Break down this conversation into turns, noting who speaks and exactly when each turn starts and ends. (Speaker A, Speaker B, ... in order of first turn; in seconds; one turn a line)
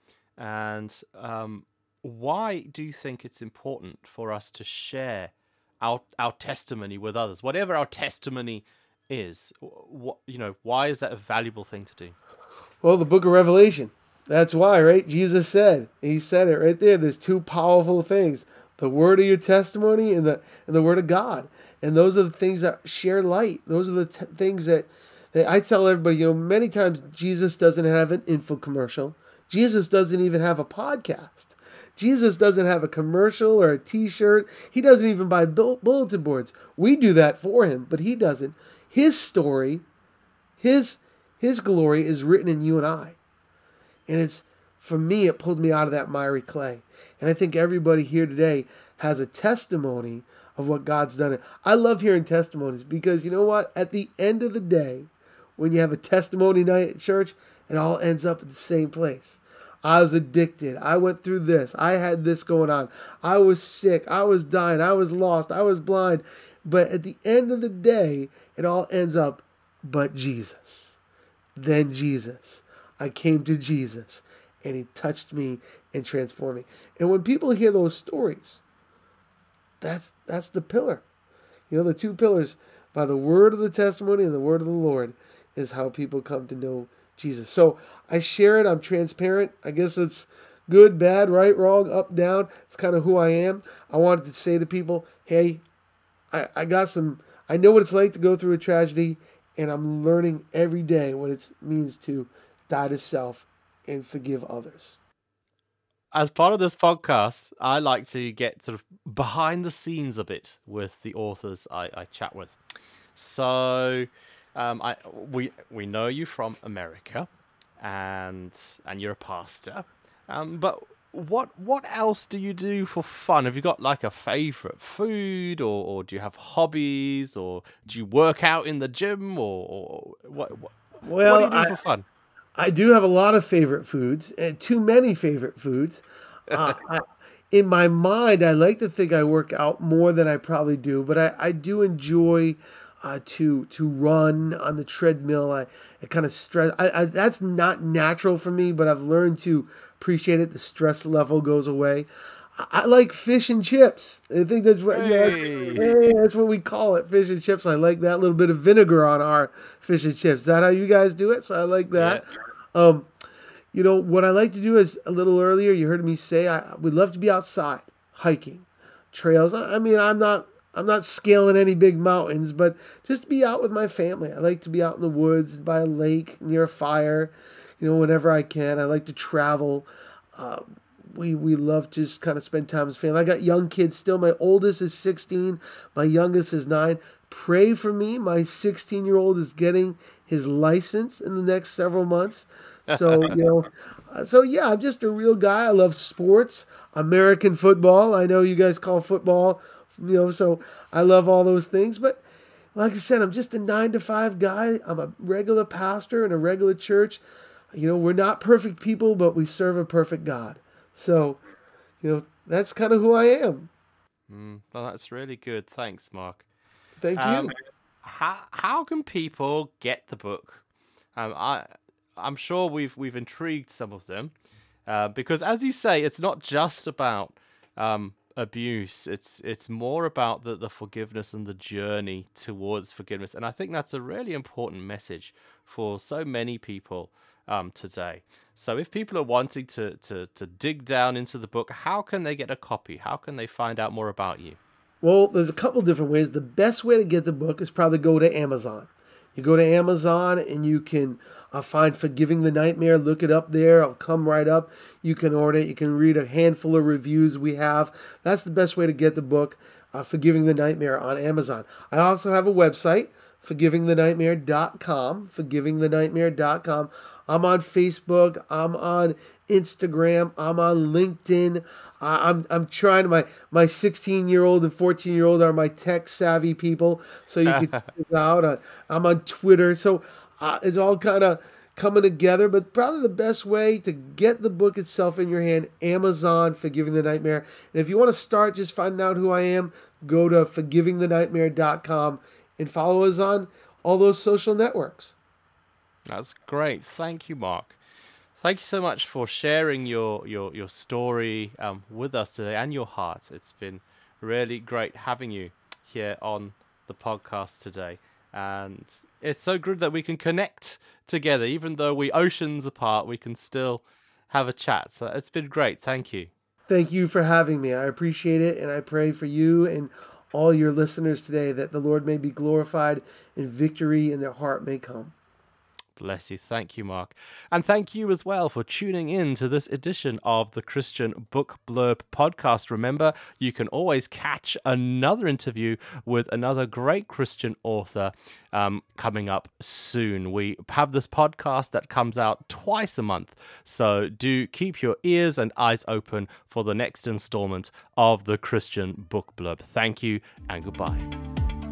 Speaker A: 0.4-12.2
Speaker B: 12.8-39.9
Speaker B: 40.6-43.2
Speaker B: 44.1-71.0
Speaker B: 71.6-78.6
Speaker B: 79.8-81.0
Speaker B: 81.7-95.6
Speaker B: 96.3-105.0
Speaker A: 106.1-112.6
Speaker A: 113.2-117.3
Speaker A: 117.8-132.1
Speaker B: 131.0-131.8
Speaker B: 132.6-162.2
Speaker A: 136.5-136.8
Speaker A: 154.9-155.9
Speaker A: 161.9-162.2
Speaker B: 162.7-163.1
Speaker B: 163.7-202.2
Speaker A: 192.9-193.4
Speaker B: 202.8-207.2
Speaker B: 207.7-211.4
Speaker B: 212.0-213.7
Speaker A: 214.3-216.5
Speaker B: 217.0-217.5
Speaker A: 217.2-220.6
Speaker A: 221.2-224.3
Speaker A: 224.9-244.6
Speaker B: 245.0-295.1
Speaker A: 277.5-277.9
Speaker A: 296.1-297.8
Speaker A: 298.4-316.3
Speaker B: 316.7-325.1
Speaker A: 326.0-351.1